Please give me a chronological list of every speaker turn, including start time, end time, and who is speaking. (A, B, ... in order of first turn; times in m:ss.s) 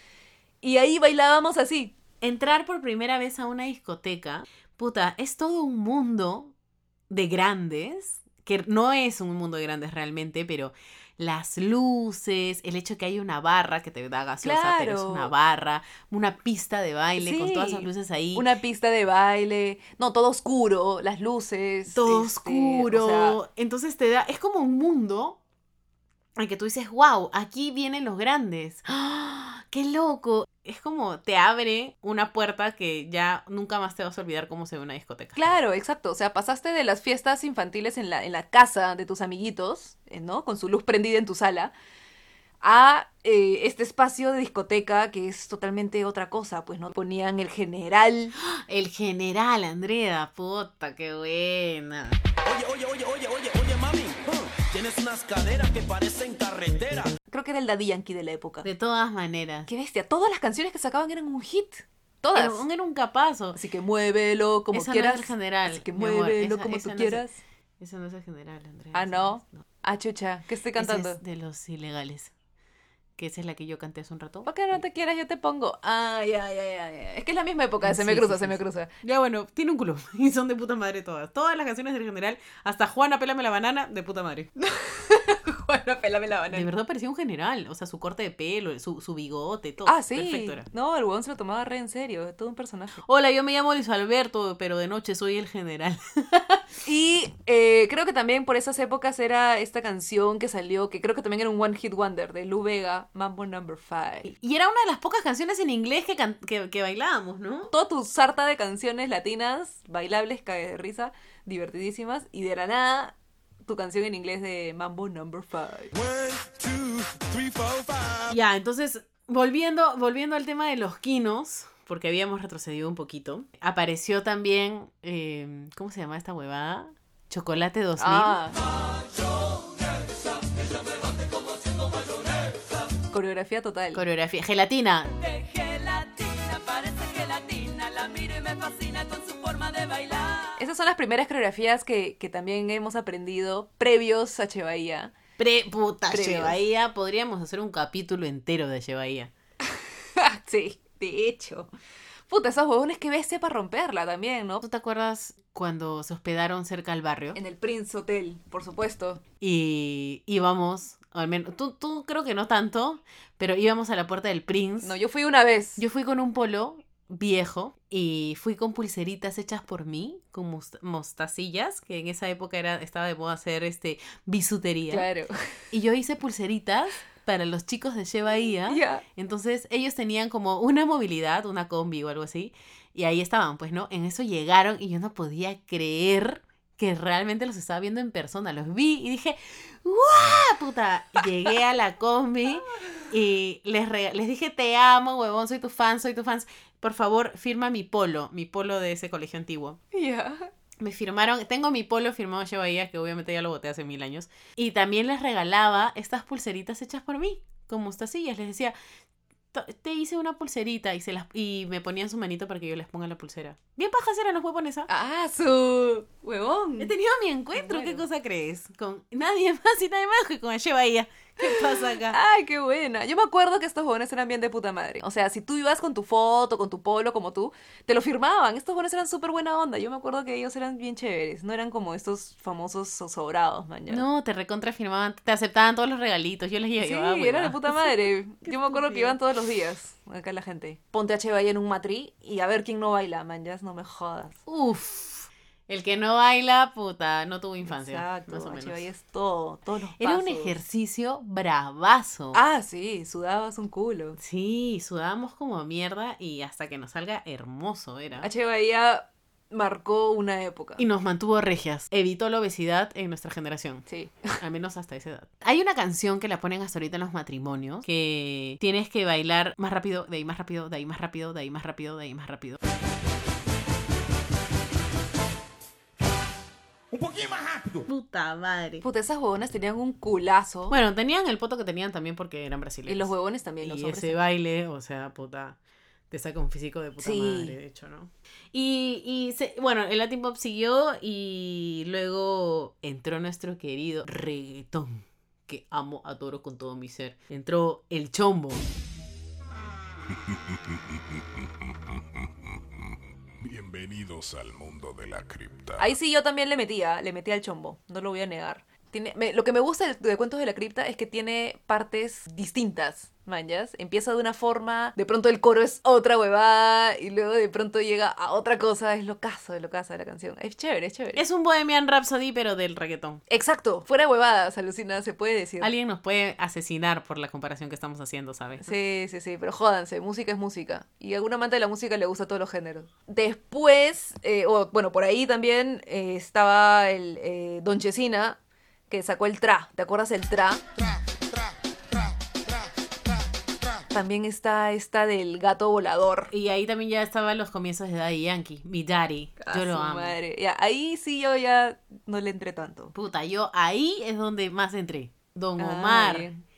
0:00.6-0:01.9 A
0:02.2-0:06.5 B
0:07.1-0:18.5 B
0:14.4-0:15.3 A
0:17.2-0:23.4 A
0:21.9-0:25.4 B
0:26.4-0:35.4 B
0:35.4-0:41.7 A
0:42.6-0:48.3 A
0:48.4-0:52.2 B
0:52.4-0:57.2 C
0:57.3-0:58.7 A
0:58.6-0:59.7 B
0:59.7-1:02.6 A
1:02.4-1:03.6 B
1:03.6-1:07.4 A
1:04.7-1:07.3 B
1:07.8-1:09.6 B
1:08.9-1:11.2 A
1:10.8-1:12.3 B
1:13.2-1:14.8 B
1:14.5-1:18.9 A
1:17.8-1:24.5 B
1:24.6-1:26.7 A
1:26.5-1:30.7 B
1:29.8-1:33.0 A
1:33.1-1:36.6 B
1:36.8-1:44.3 A
1:44.2-1:47.7 B
1:47.7-1:55.9 A
1:55.9-1:58.4 C
1:58.3-2:08.4 B
2:08.0-2:08.6 A
2:11.5-2:12.4 C
2:13.1-2:14.0 A
2:13.9-2:15.2 B
2:16.0-2:20.3 C
2:20.6-2:25.1 A
2:25.4-2:29.3 B
2:26.1-2:26.6 A
2:30.2-2:31.7 A
2:32.3-2:34.6 A
2:34.6-2:37.4 B
2:37.4-2:39.2 A
2:39.4-2:45.0 B
2:44.8-2:45.8 A
2:45.8-2:55.1 B
2:54.9-2:55.3 A
2:55.7-3:19.8 B
2:58.7-2:59.0 A
3:19.9-3:20.5 A
3:20.8-3:28.8 B
3:29.5-3:34.9 B
3:34.9-3:37.0 A
3:36.8-3:42.2 B
3:37.5-3:38.0 A
3:41.4-3:54.1 A
3:53.9-3:59.2 B
3:56.8-4:04.4 A
4:04.5-4:08.9 B
4:07.6-4:10.6 A
4:10.0-4:12.4 B
4:12.3-4:14.2 A
4:14.2-4:18.3 B
4:18.2-4:20.8 A
4:20.8-4:23.8 B
4:23.9-4:24.4 A
4:24.4-4:32.6 B
4:37.0-4:37.8 C
4:37.8-4:38.8 B
4:38.8-4:40.8 A
4:40.7-4:45.6 B
4:42.9-4:44.2 A
4:46.1-4:58.7 B
4:47.0-4:47.6 A
5:03.4-5:05.9 C
5:05.8-5:21.2 A
5:21.2-5:23.2 B
5:23.3-5:25.7 A
5:25.6-5:28.7 B
5:28.6-5:38.4 A
5:38.9-5:40.7 A
5:43.9-5:46.3 A
5:46.3-5:50.2 B
5:49.4-5:52.9 A
5:53.0-5:56.3 B
5:55.6-5:56.4 A